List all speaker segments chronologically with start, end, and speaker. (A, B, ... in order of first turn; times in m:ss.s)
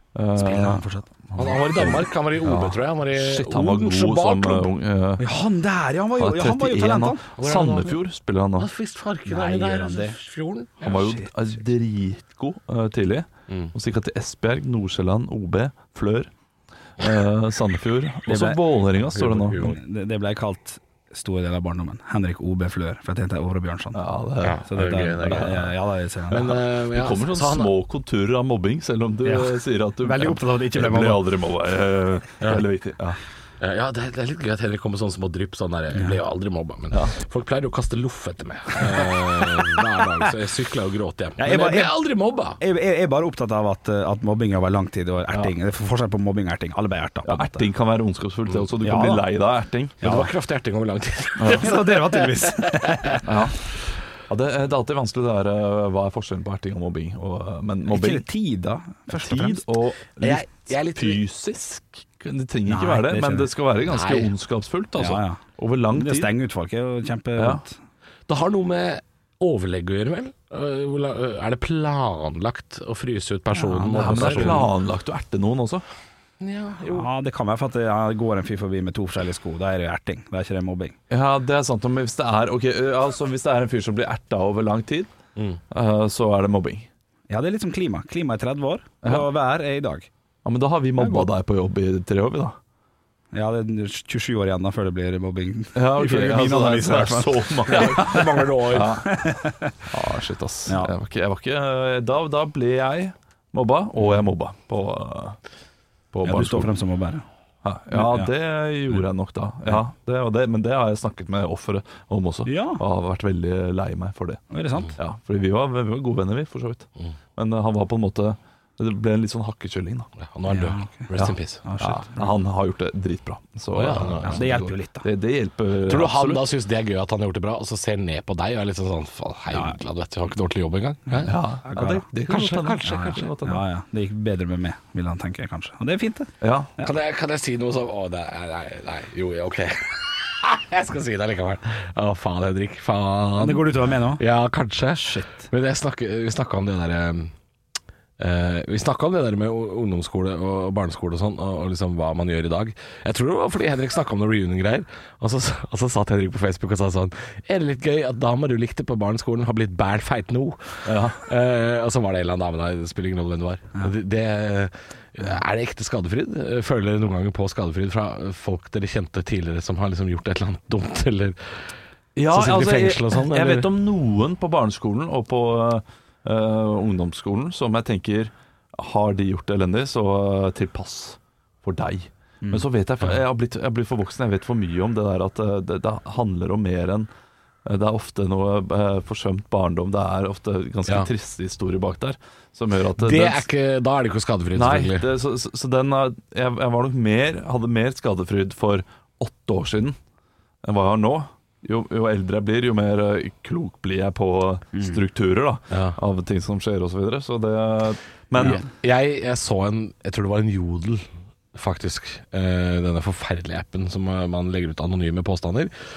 0:00.1-0:05.2 A
0:00.4-0:01.1 B
0:01.4-0:04.7 C
0:05.2-0:07.2 B
0:06.2-0:08.7 A
0:07.3-0:08.0 C
0:08.6-0:11.0 C
0:09.3-0:10.2 B
0:10.8-0:16.3 A
0:10.9-0:11.3 B
0:17.0-0:19.7 A
0:18.3-0:18.6 B
0:19.1-0:19.8 C
0:19.6-0:24.0 B
0:23.9-0:25.6 A
0:24.4-0:25.6 C
0:24.6-0:26.6 B
0:26.3-0:27.7 C
0:26.9-0:33.2 A
0:29.2-0:31.3 B
0:33.6-0:42.6 C
0:39.0-0:40.0 B
0:41.4-0:42.0 B
0:42.6-0:47.6 B
0:47.2-0:50.1 A
0:48.8-0:49.3 B
0:50.0-0:50.3 B
0:50.0-0:53.2 C
0:51.4-0:51.7 A
0:51.5-0:53.2 B
0:53.2-0:53.6 A
0:54.3-0:58.2 A
0:57.9-0:59.6 B
0:59.1-1:06.3 A
1:00.2-1:01.2 C
1:02.7-1:03.5 B
1:03.9-1:04.3 C
1:05.0-1:05.4 B
1:05.9-1:07.8 B
1:07.4-1:07.6 A
1:08.3-1:14.6 C
1:13.5-1:14.7 B
1:14.0-1:15.8 A
1:16.4-1:17.1 C
1:16.9-1:21.0 B
1:21.1-1:25.1 A
1:25.7-1:26.9 A
1:27.3-1:30.1 B
1:29.0-1:29.3 A
1:30.4-1:32.6 A
1:31.0-1:31.3 B
1:33.3-1:38.4 B
1:35.7-1:39.2 A
1:37.7-1:39.0 C
1:39.0-1:39.7 B
1:39.9-1:45.4 A
1:46.1-1:47.2 B
1:46.1-1:46.7 A
1:47.6-1:54.4 A
1:47.9-1:48.3 B
1:52.4-1:52.8 B
1:54.5-1:55.0 B
1:55.0-2:00.1 A
2:00.2-2:01.6 C
2:00.5-2:01.1 B
2:01.1-2:06.5 A
2:01.6-2:02.3 B
2:03.7-2:04.5 C
2:04.2-2:05.0 B
2:05.8-2:11.4 C
2:09.5-2:09.8 B
2:11.1-2:12.0 B
2:11.2-2:13.6 A
2:12.2-2:13.3 C
2:12.8-2:16.9 B
2:16.4-2:16.7 A
2:16.8-2:27.3 C
2:23.4-2:24.2 B
2:28.2-2:51.6 C
2:40.8-2:41.2 A
2:52.2-3:07.1 A
2:52.3-2:53.7 C
3:07.6-3:13.4 A
3:13.0-3:15.1 C
3:14.5-3:20.0 A
3:20.6-3:28.6 A
3:25.7-3:26.0 C
3:28.4-3:35.7 C